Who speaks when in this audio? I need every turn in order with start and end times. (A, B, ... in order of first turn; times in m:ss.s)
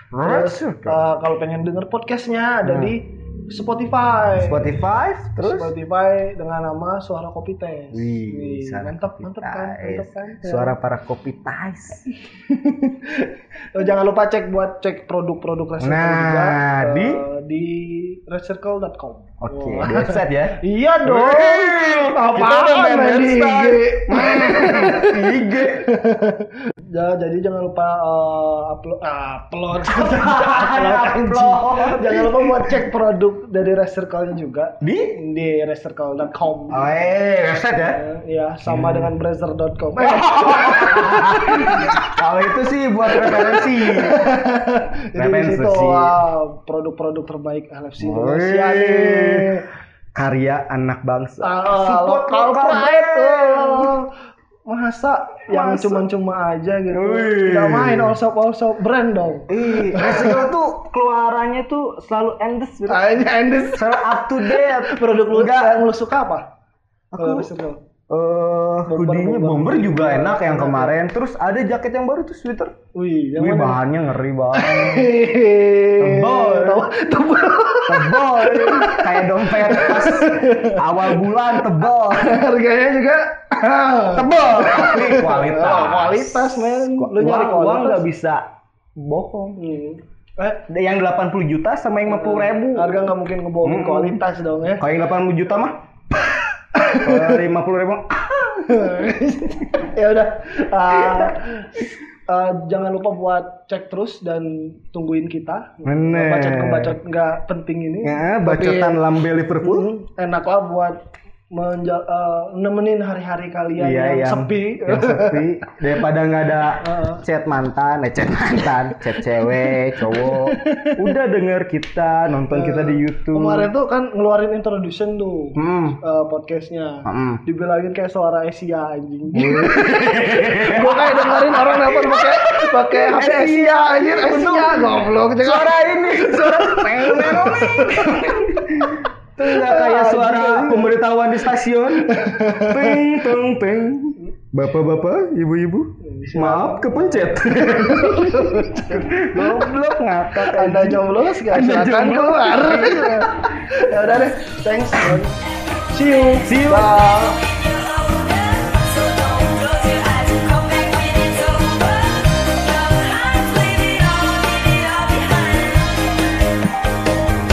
0:00.1-0:01.0 A
0:00.2-0:04.8 B
0:02.6-0:03.0 A
0:04.4-0:05.7 A
0:05.4-0:10.8 B
0:07.9-0:12.1 A
0:12.3-0:36.9 B
0:15.8-0:17.2 A
0:19.4-0:25.9 A
0:29.8-0:32.7 A
0:34.8-0:35.2 A
0:36.7-0:38.0 A
0:37.9-0:42.0 B
0:38.6-0:39.1 A
0:40.0-0:44.3 A
0:43.2-0:49.7 B
0:45.2-0:46.2 A
0:48.0-0:49.6 A
0:50.2-0:53.9 A
0:51.4-0:54.1 B
0:54.7-1:00.4 B
0:55.5-0:56.0 A
0:56.9-0:58.2 A
0:59.5-1:03.2 A
1:02.9-1:06.5 B
1:03.7-1:05.8 A
1:07.1-1:07.5 A
1:07.2-1:07.8 B
1:08.1-1:12.7 A
1:08.9-1:11.0 B
1:13.0-1:13.8 B
1:13.4-1:15.1 A
1:14.6-1:28.0 B
1:16.0-1:16.8 A
1:17.9-1:22.4 A
1:24.1-1:28.4 A
1:29.0-1:29.6 A
1:29.6-1:30.7 B
1:30.7-1:33.1 A
1:32.1-1:34.9 B
1:33.6-1:34.2 A
1:34.8-1:35.8 A
1:36.8-1:37.4 B
1:36.8-1:38.8 A
1:38.6-1:49.0 B
1:40.9-1:41.4 A
1:45.8-1:47.0 A
1:48.0-1:49.9 A
1:49.6-1:51.0 B
1:51.5-1:55.4 B
1:53.8-2:03.7 A
1:56.8-1:57.2 B
1:59.2-2:01.1 B
2:02.5-2:09.8 B
2:05.6-2:06.0 A
2:07.1-2:07.4 A
2:09.3-2:33.6 A
2:10.5-2:21.0 B
2:22.1-2:23.1 B
2:26.0-2:29.7 B
2:30.4-2:35.4 B
2:35.9-2:37.5 B
2:36.4-2:37.0 A
2:37.5-2:46.1 C